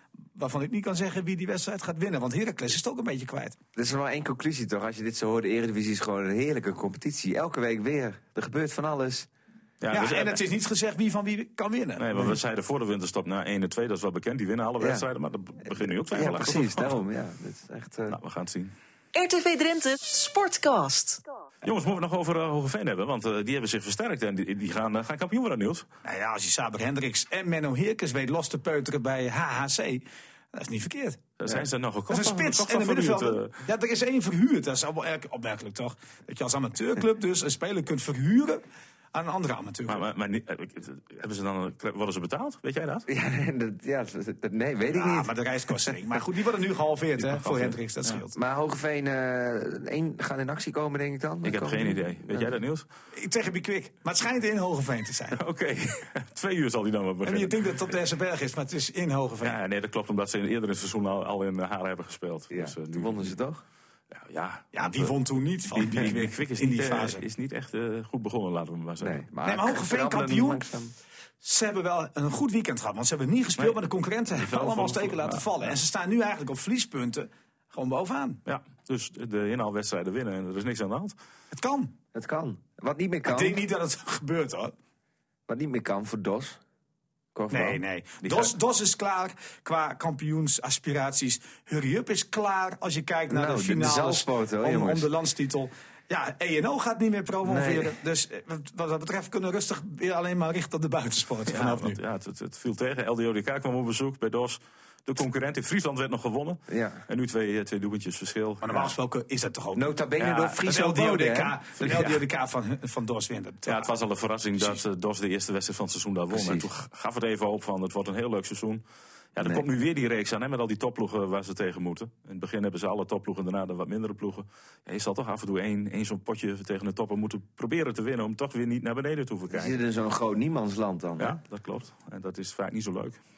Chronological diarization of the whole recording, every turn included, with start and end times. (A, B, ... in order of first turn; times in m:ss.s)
0:00.4-0:03.6 A
0:03.7-0:09.3 B
0:09.8-0:10.4 C
0:09.9-0:12.3 A
0:12.0-0:17.0 C
0:14.8-0:15.0 B
0:15.7-0:18.2 B
0:18.1-0:18.7 C
0:19.1-0:21.2 D
0:21.6-0:25.9 C
0:26.0-0:31.2 A
0:31.4-0:33.6 C
0:32.1-0:38.6 A
0:39.1-0:40.0 A
0:39.9-0:43.1 C
0:43.0-0:45.3 B
0:44.9-0:48.4 A
0:47.2-0:48.2 C
0:48.3-0:52.5 B
0:51.4-0:52.9 C
0:53.1-0:55.4 A
0:55.3-0:57.7 C
0:57.2-0:59.6 A
0:59.4-1:03.3 C
1:02.5-1:03.6 B
1:04.1-1:05.2 C
1:04.7-1:07.2 A
1:05.7-1:09.2 C
1:09.0-1:10.9 B
1:09.4-1:10.6 A
1:11.4-1:18.4 A
1:14.3-1:15.7 C
1:18.4-1:21.1 C
1:21.5-1:21.9 A
1:22.1-1:23.6 B
1:23.2-1:24.7 A
1:25.5-1:26.6 B
1:27.3-1:27.8 B
1:27.5-1:42.0 A
1:33.3-1:35.1 B
1:37.4-1:37.9 B
1:41.5-1:48.9 C
1:46.7-1:47.0 B
1:48.6-1:49.9 A
1:49.7-1:51.6 B
1:50.2-1:50.6 C
1:50.6-1:53.9 A
1:51.8-1:52.2 C
1:53.7-1:58.8 C
1:56.3-1:56.7 B
1:59.3-2:09.8 C
1:59.4-1:59.6 B
2:09.5-2:11.4 B
2:11.2-2:13.2 C